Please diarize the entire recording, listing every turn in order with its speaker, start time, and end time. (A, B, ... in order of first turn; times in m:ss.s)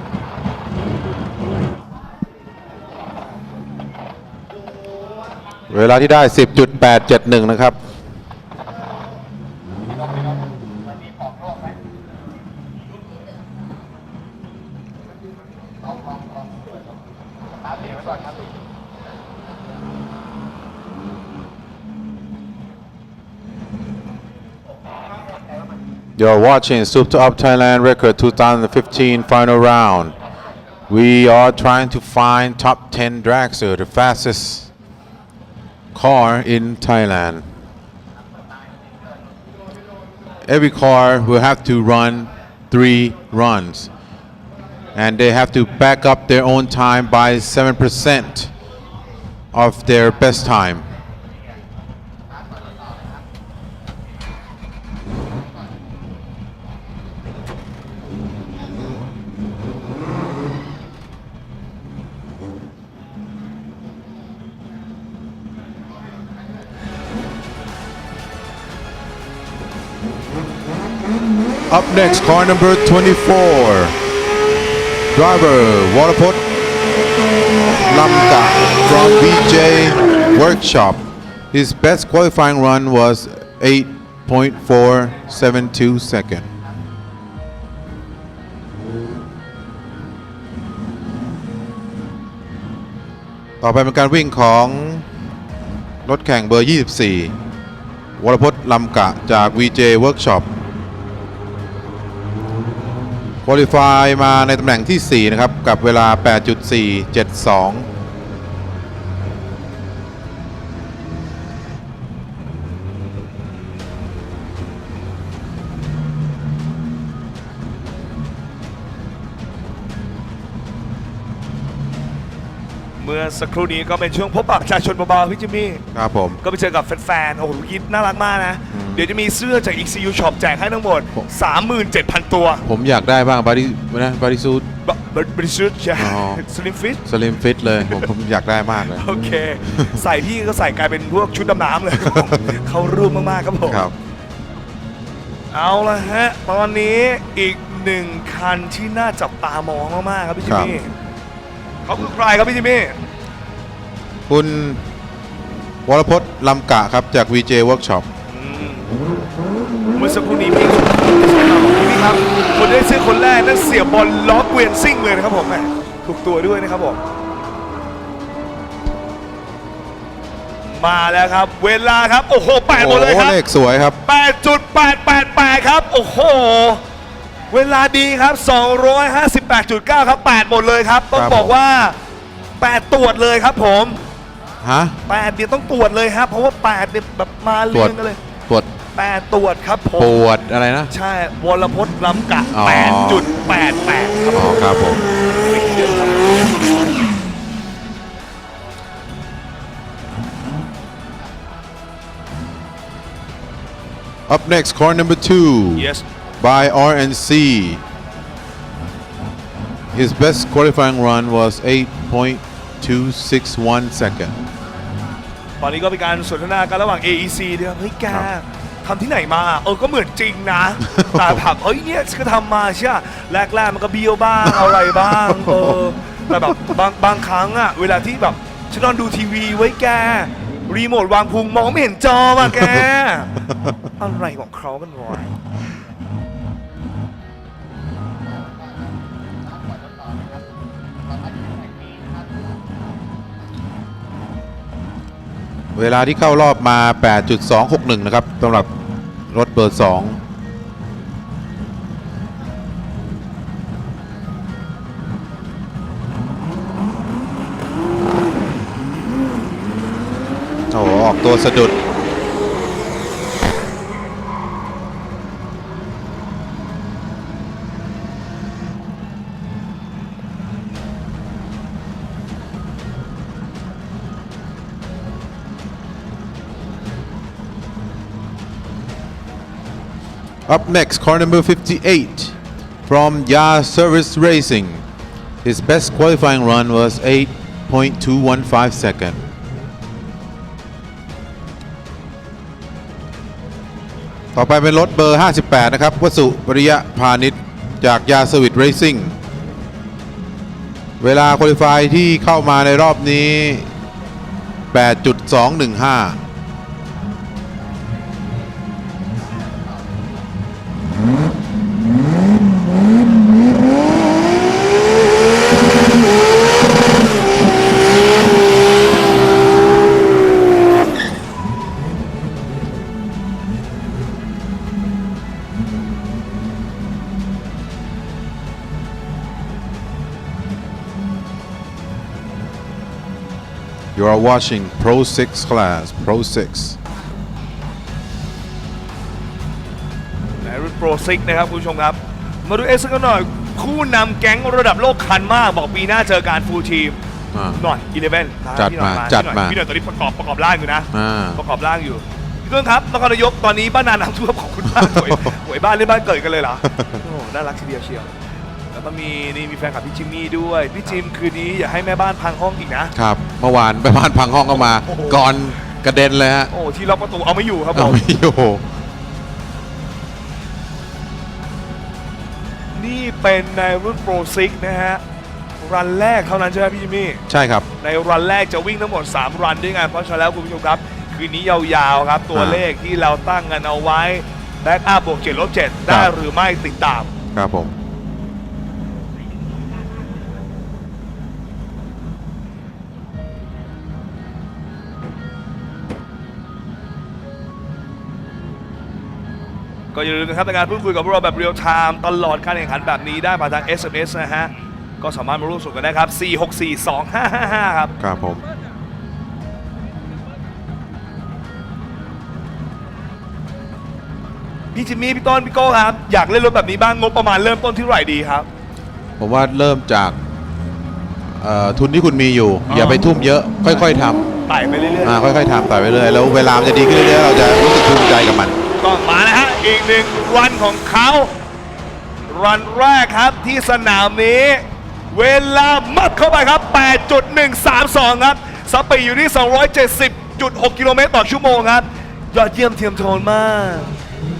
0:05.7-0:07.8 A
0:26.2-0:30.1 A
0:30.9-0:34.7 A
0:35.9-0:37.5 A
0:40.5-0:43.9 A
0:44.9-0:48.5 A
0:49.5-0:50.8 A
1:11.7-1:14.0 A
1:15.1-1:16.4 A
1:17.6-1:26.5 A
1:33.6-1:35.1 A
1:36.0-1:37.3 A
1:38.2-1:40.5 A
1:43.4-1:47.9 A
2:03.0-2:05.8 B
2:05.9-2:06.4 A
2:06.4-2:12.6 B
2:08.7-2:09.0 A
2:12.6-2:14.7 A
2:14.8-2:17.0 B
2:16.0-2:16.4 A
2:17.0-2:19.0 A
2:17.8-2:18.1 B
2:18.9-2:23.8 B
2:19.7-2:20.0 A
2:23.7-2:23.9 A
2:25.5-2:30.9 B
2:30.4-2:30.7 A
2:31.8-2:33.0 B
2:34.3-2:34.8 A
2:35.8-2:38.1 A
2:38.3-2:38.9 B
2:39.9-2:47.0 B
2:50.6-2:53.4 B
2:52.7-2:54.0 A
2:54.0-2:56.8 B
2:57.5-3:02.0 B
3:01.1-3:01.5 A
3:02.6-3:04.0 B
3:04.6-3:05.0 A
3:05.1-3:08.2 B
3:09.0-3:10.1 B
3:10.0-3:10.9 A
3:10.9-3:14.5 B
3:12.5-3:13.2 A
3:14.3-3:15.0 A
3:15.5-3:16.6 B
3:24.3-3:27.8 A
3:25.8-3:26.0 B
3:29.9-3:34.4 A
3:35.6-3:53.4 B
3:40.9-3:41.4 A
3:45.3-3:45.7 A
3:54.0-3:55.3 B
4:05.7-4:08.7 A
4:09.3-4:10.2 A
4:20.7-4:21.7 A
4:40.5-4:42.4 A
4:42.9-4:44.8 A
4:45.4-4:49.2 A
4:54.3-4:59.2 A
5:01.0-5:03.7 A
5:04.7-5:06.2 A
5:33.9-5:36.8 A
5:40.4-5:47.0 B
5:47.3-5:47.6 A
5:47.5-5:58.1 B
5:48.6-5:49.6 A
5:50.9-5:51.4 A
5:54.7-5:55.3 A
5:56.6-5:57.0 A
5:58.7-6:02.9 B
6:02.9-6:06.5 A
6:04.6-6:05.4 B
6:06.5-6:08.0 B
6:07.7-6:08.6 A
6:12.7-6:15.0 B
6:15.6-6:17.2 B
6:17.3-6:17.7 A
6:17.8-6:27.1 B
6:22.3-6:22.6 A
6:25.9-6:26.1 A
6:27.3-6:27.7 A
6:39.9-6:47.9 B
6:48.0-6:48.4 A
6:54.7-6:58.5 B
6:59.2-7:00.2 A
7:01.4-7:04.2 A
7:02.7-7:03.8 B
7:04.5-7:05.2 B
7:05.0-7:08.6 A
7:08.8-7:11.3 B
7:12.3-7:23.9 B